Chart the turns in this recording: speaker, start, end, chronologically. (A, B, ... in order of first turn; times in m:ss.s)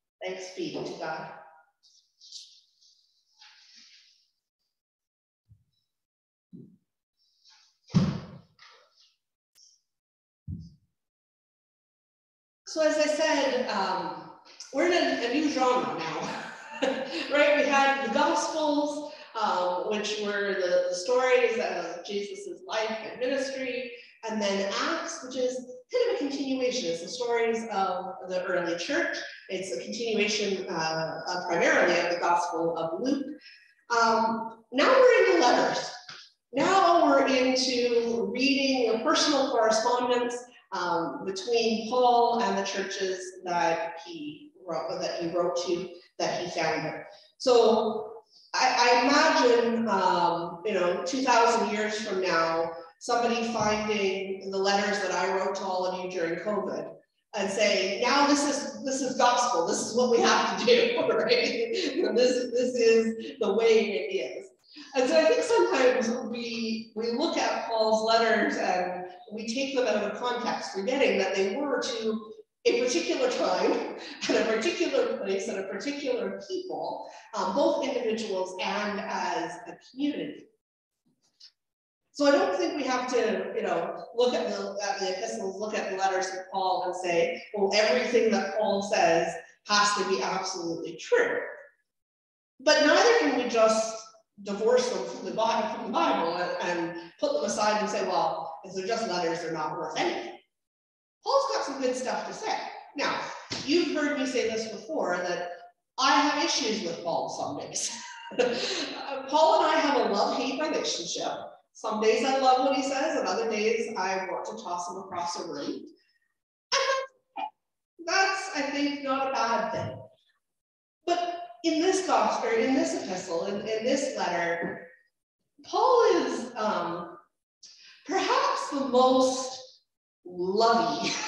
0:00.2-0:01.3 A
0:12.6-0:33.4 A
0:33.9-0:36.0 A
0:36.5-1:20.5 A
1:22.1-1:31.5 A
1:32.6-1:40.4 A
1:41.2-1:55.9 A
1:56.7-1:57.0 A
1:58.0-2:00.0 A
2:01.0-2:04.9 A
2:05.6-2:07.2 A
2:08.0-2:11.1 A